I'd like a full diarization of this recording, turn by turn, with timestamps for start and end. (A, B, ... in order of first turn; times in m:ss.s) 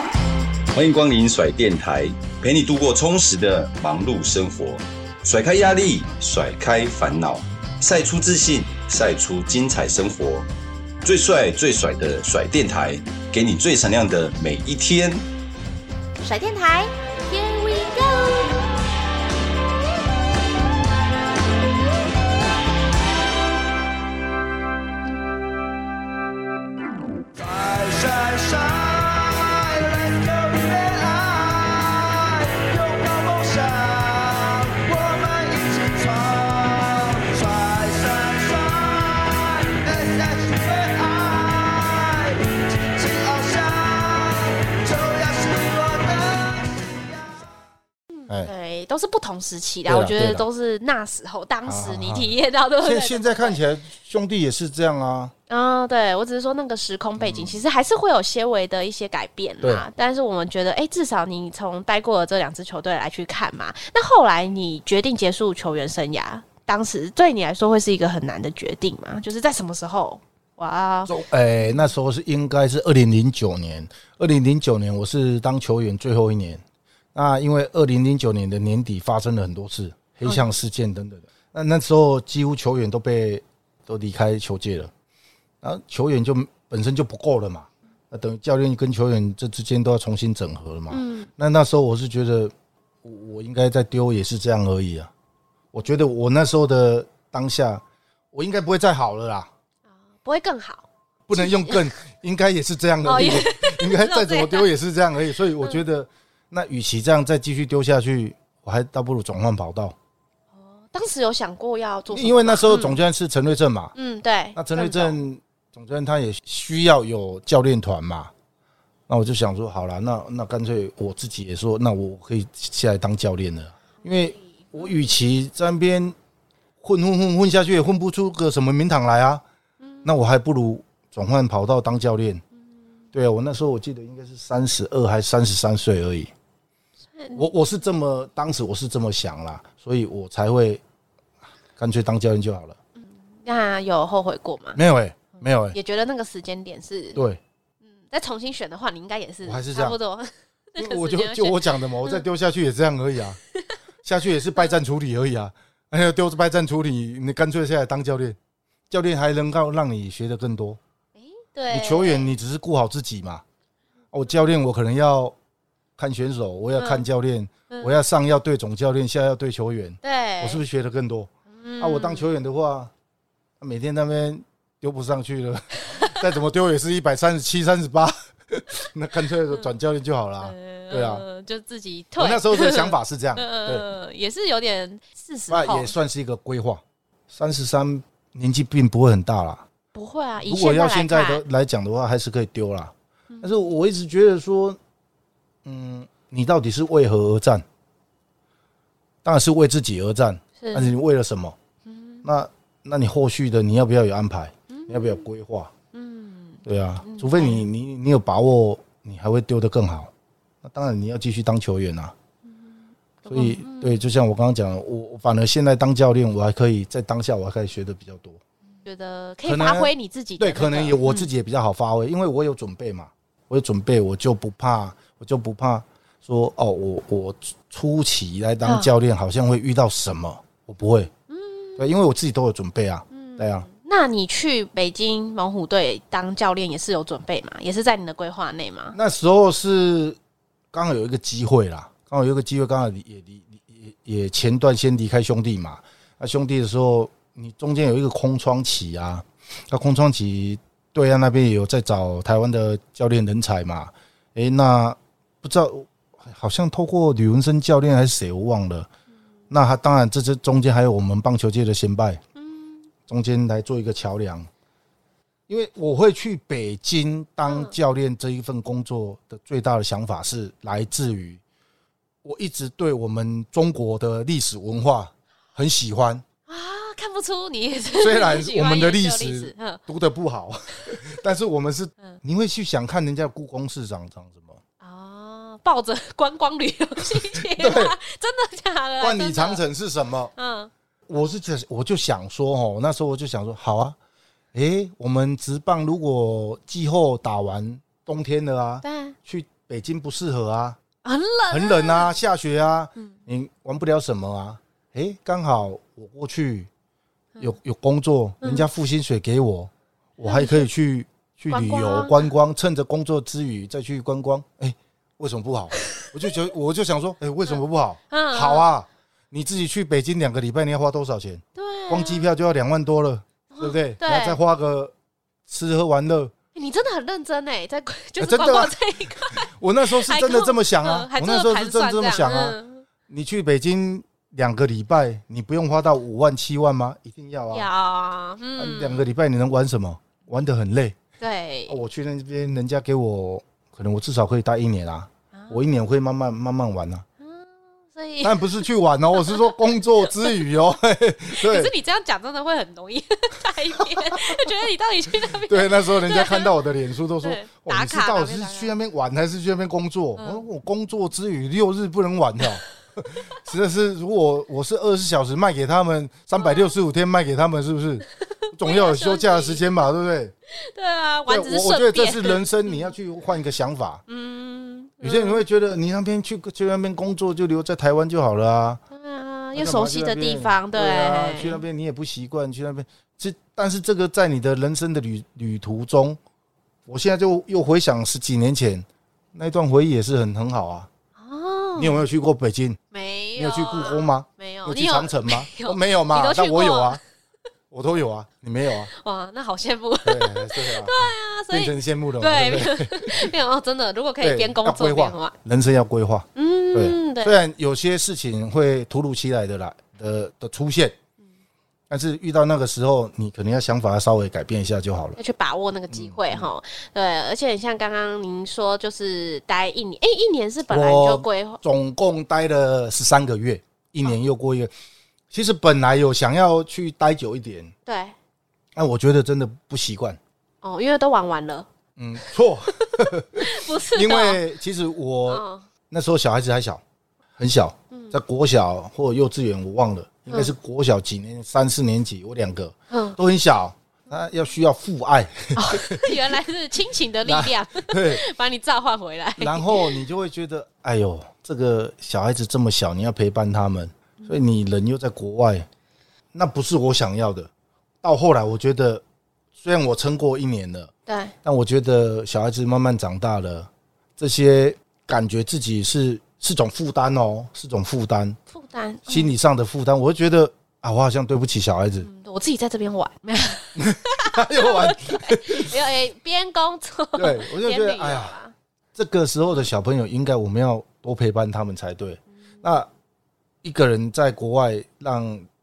0:00.7-0:10.5 A
0:11.0-0:15.2 A
0:16.2-0:18.6 B
0:27.3-0:47.4 C
0:48.4-0:53.6 B
0:49.9-0:50.5 D
0:51.6-0:55.3 D
0:55.5-1:11.1 B
0:57.2-0:57.6 D
1:11.0-1:16.6 D
1:17.1-1:24.9 D
1:25.6-1:32.5 D
1:30.9-1:31.3 B
1:33.0-1:35.1 D
1:35.7-1:39.5 D
1:40.2-1:41.9 B
1:41.3-1:49.9 D
1:43.0-1:44.7 B
1:50.6-1:53.0 B
1:52.1-1:53.9 D
1:53.9-1:55.2 B
1:54.5-1:58.3 D
1:59.1-2:06.2 D
2:04.2-2:04.7 B
2:06.8-2:09.4 D
2:10.0-2:12.4 D
2:13.1-2:16.3 D
2:17.2-2:17.4 B
2:17.3-2:20.8 D
2:21.8-2:22.8 D
2:23.0-2:24.8 B
2:24.8-2:25.8 D
2:25.7-2:27.2 B
2:27.2-2:27.4 D
2:28.0-2:32.2 B
2:29.4-2:30.0 D
2:30.8-2:33.4 D
2:34.0-2:38.4 D
2:38.9-2:40.8 D
2:41.2-2:42.3 B
2:41.7-2:43.4 D
2:44.1-2:45.3 D
2:46.0-2:52.9 D
2:46.8-2:47.0 B
2:50.0-2:50.6 B
2:51.6-2:52.3 B
2:53.6-3:01.2 D
3:00.4-3:05.9 B
3:02.2-3:03.9 D
3:05.5-3:09.6 D
3:09.9-3:11.4 B
3:10.5-3:14.8 D
3:15.6-3:17.6 D
3:19.2-3:21.6 D
3:20.6-3:20.9 B
3:21.8-3:22.2 B
3:22.2-3:25.7 D
3:24.7-3:25.2 B
3:25.9-3:27.6 B
3:26.6-3:30.1 D
3:30.6-3:32.1 D
3:33.2-3:34.0 B
3:33.3-3:38.4 D
3:38.8-3:41.3 B
3:39.4-3:51.1 D
3:48.6-3:48.9 B
3:51.3-3:51.8 B
3:51.8-3:53.7 D
3:53.1-3:59.0 B
3:58.9-4:00.2 D
4:00.7-4:18.9 D
4:19.5-4:22.2 D
4:22.4-4:22.9 B
4:23.1-4:24.5 D
4:25.5-4:31.4 D
4:27.5-4:27.7 B
4:32.2-4:36.2 D
4:36.5-4:39.8 B
4:37.9-4:44.6 D
4:44.8-4:49.6 B
4:47.4-4:47.9 D
4:49.0-4:50.3 D
4:50.4-4:50.7 B
4:51.1-4:54.0 D
4:54.5-5:00.8 D
4:58.8-4:59.1 B
5:01.0-5:02.1 B
5:01.5-5:06.7 D
5:07.4-5:24.9 D
5:08.4-5:08.7 B
5:10.2-5:10.6 B
5:11.5-5:12.3 B
5:18.1-5:18.6 B
5:21.6-5:22.3 B
5:23.5-5:24.4 B
5:25.5-5:26.3 D
5:26.5-5:32.8 B
5:28.2-5:32.6 D
5:33.1-5:37.7 D
5:37.5-5:39.0 B
5:38.6-5:41.0 D
5:41.2-5:41.8 B
5:41.7-5:47.0 D
5:45.3-5:45.6 B
5:47.2-5:48.6 B
5:48.2-5:51.7 D
5:49.2-5:49.6 B
5:51.4-5:56.5 B
5:53.8-5:54.4 D
5:55.2-6:10.3 D
5:57.2-5:58.7 B
6:00.2-6:00.4 B
6:06.4-6:06.7 B
6:08.3-6:09.6 B
6:10.6-6:12.9 B
6:11.3-6:14.0 D
6:14.1-6:15.4 B
6:15.0-6:18.8 D
6:18.9-6:21.6 B
6:19.5-6:26.2 D
6:26.9-6:30.9 D
6:31.2-6:32.0 B
6:31.8-6:32.8 D
6:32.9-6:37.0 B
6:33.4-6:37.0 D
6:37.7-6:38.9 D
6:38.9-6:45.3 B
6:40.0-6:43.3 D
6:44.2-6:51.0 D
6:46.3-6:47.4 B
6:51.9-6:55.2 D
6:55.2-7:01.6 B
6:55.9-6:56.5 D
7:00.7-7:04.7 D
7:05.3-7:07.7 D
7:07.8-7:08.1 B
7:08.7-7:10.2 D
7:10.6-7:11.7 B
7:12.0-7:16.8 D
7:12.3-7:14.4 B
7:15.3-7:15.6 B
7:17.4-7:26.2 D
7:22.9-7:23.2 B
7:25.5-7:30.0 B
7:27.2-7:28.2 D
7:29.4-7:35.7 D
7:36.3-7:37.5 D
7:38.0-7:39.0 D
7:39.6-7:40.9 D
7:41.1-7:41.3 B
7:41.4-7:48.4 D
7:48.5-7:49.3 B
7:49.0-7:52.1 D
7:52.0-7:58.5 B
7:53.7-7:55.8 D
7:57.2-7:58.4 D
7:58.9-8:02.9 D
8:03.6-8:05.4 D